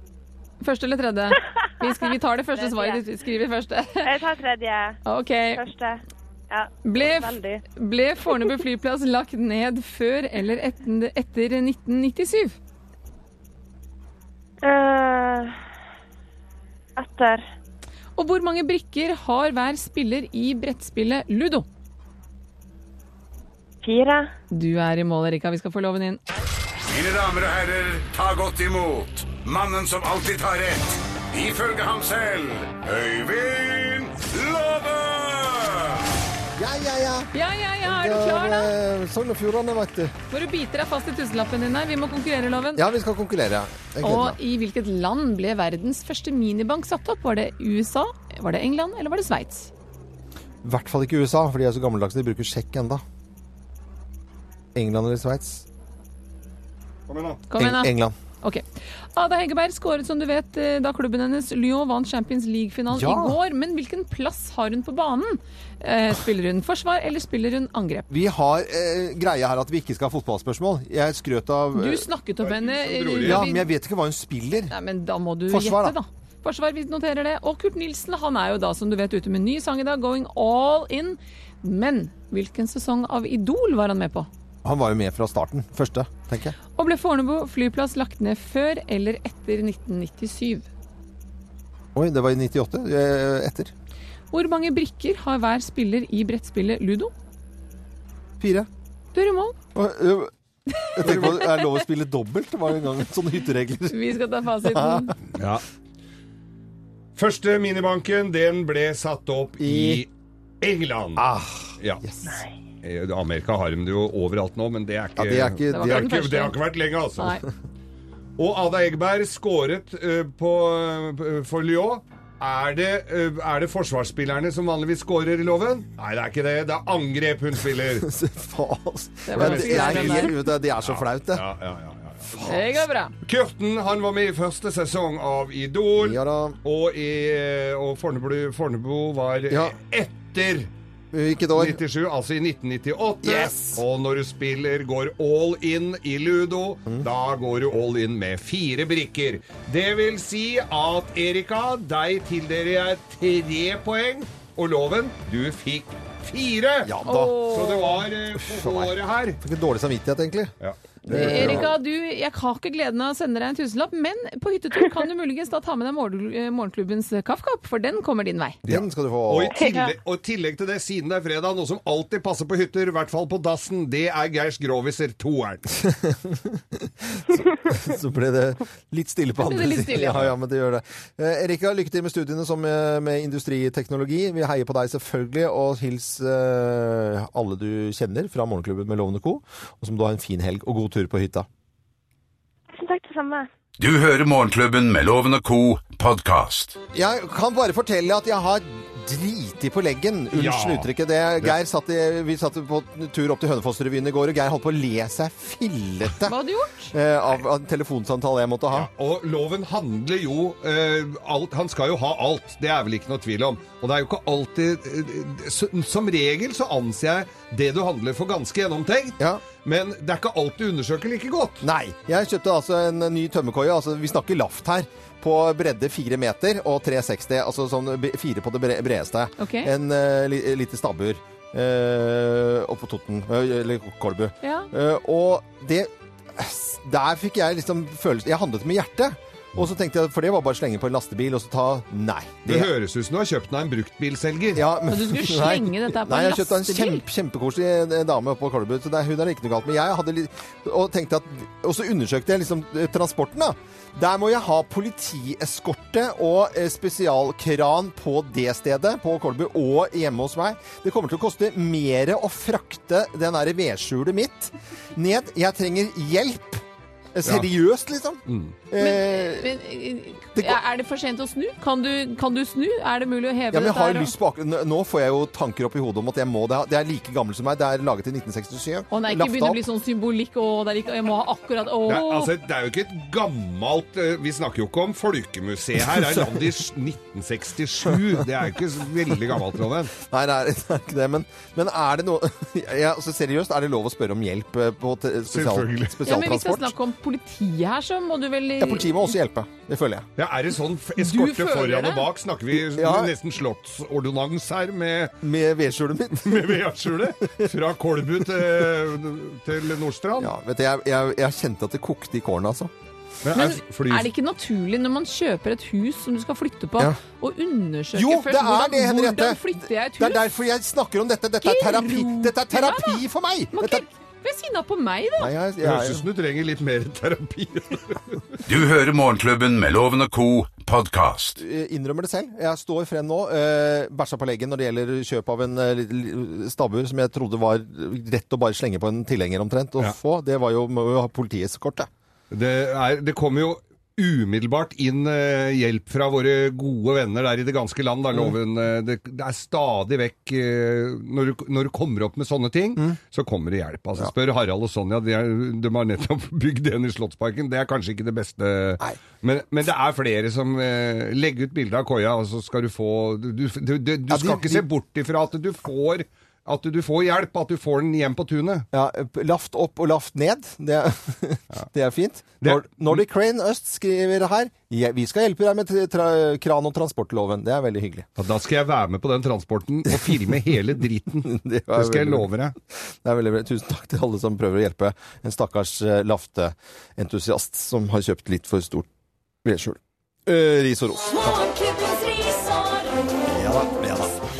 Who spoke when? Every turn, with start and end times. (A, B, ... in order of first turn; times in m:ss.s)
0:00.6-0:04.1 A
0:02.6-0:03.0 B
0:04.0-0:05.0 B
0:05.0-0:05.7 A
0:05.5-0:07.6 B
0:06.8-0:12.6 A
0:14.6-0:15.5 B
0:17.0-0:17.4 B
0:18.2-0:21.7 A
0:23.8-0:24.3 B
0:24.5-0:26.2 A
0:26.9-0:36.0 C
0:36.6-0:37.3 D
0:37.3-0:38.7 A
0:37.8-0:40.1 D
0:40.3-0:42.8 A
0:42.8-0:44.4 D
0:44.0-0:49.7 A
0:50.6-0:53.0 D
0:54.8-0:55.7 D
0:57.1-0:57.4 E
0:57.5-0:58.6 A
0:57.6-0:58.2 D
0:59.2-1:08.1 A
1:02.9-1:03.4 D
1:08.1-1:12.1 D
1:11.8-1:13.7 A
1:12.4-1:13.4 E
1:13.2-1:14.7 D
1:14.7-1:24.3 A
1:15.5-1:16.0 D
1:24.6-1:26.6 D
1:26.8-1:30.7 A
1:32.0-1:33.7 D
1:34.3-1:37.1 A
1:38.4-1:38.7 D
1:39.1-1:39.6 A
1:39.8-1:40.3 D
1:40.7-1:41.7 A
1:41.0-1:45.2 D
1:41.0-1:41.4 E
1:43.9-1:45.2 A
1:45.4-1:45.6 E
1:47.2-1:50.1 E
1:49.6-1:50.0 D
1:50.6-1:51.3 E
1:51.2-1:52.4 D
1:52.8-1:57.4 E
1:55.2-1:56.1 D
1:55.7-1:56.6 A
1:58.4-2:08.1 E
2:08.0-2:11.4 D
2:09.3-2:10.4 A
2:09.4-2:12.5 E
2:12.3-2:12.8 D
2:12.4-2:13.1 A
2:13.2-2:20.7 E
2:16.0-2:16.6 D
2:21.1-2:21.8 D
2:21.5-2:39.4 E
2:23.2-2:23.8 D
2:36.8-2:37.4 D
2:37.0-2:38.0 A
2:38.4-2:40.6 D
2:40.6-2:41.7 E
2:41.1-2:48.6 A
2:41.1-2:41.7 D
2:48.7-2:49.6 D
2:48.7-2:55.7 E
2:55.8-3:11.5 D
2:59.4-3:00.2 A
3:12.7-3:13.5 B
3:13.8-3:16.8 C
3:16.9-3:26.4 D
3:20.3-3:20.9 E
3:26.2-3:26.9 A
3:26.9-3:28.9 D
3:28.7-3:41.6 E
3:41.6-4:02.7 D
3:49.4-3:49.7 A
3:54.4-3:54.7 A
4:02.5-4:04.7 E
4:04.6-4:29.5 D
4:04.9-4:07.0 A
4:28.3-4:28.6 E
4:28.8-4:34.1 A
4:33.5-4:39.6 D
4:38.9-4:42.3 A
4:41.9-4:50.0 E
4:50.0-4:56.8 D
4:55.3-4:56.0 E
4:56.1-4:59.1 A
4:58.6-5:00.1 D
5:00.2-5:05.1 E
5:01.0-5:02.0 A
5:02.6-5:03.1 D
5:05.2-5:07.5 D
5:06.2-5:10.3 E
5:10.2-5:12.7 D
5:13.2-5:14.1 E
5:13.3-5:20.2 A
5:17.9-5:23.8 D
5:21.4-5:25.3 A
5:25.2-5:26.0 D
5:25.6-5:28.3 E
5:28.5-5:31.4 C
5:31.4-5:41.9 D
5:42.3-6:08.7 E
6:04.1-6:04.6 D
6:08.7-6:18.1 D
6:12.4-6:13.0 E
6:18.2-6:22.6 E
6:19.9-6:20.4 D
6:21.2-6:28.9 D
6:29.4-6:31.4 D
6:31.1-6:33.7 F
6:33.3-6:34.2 D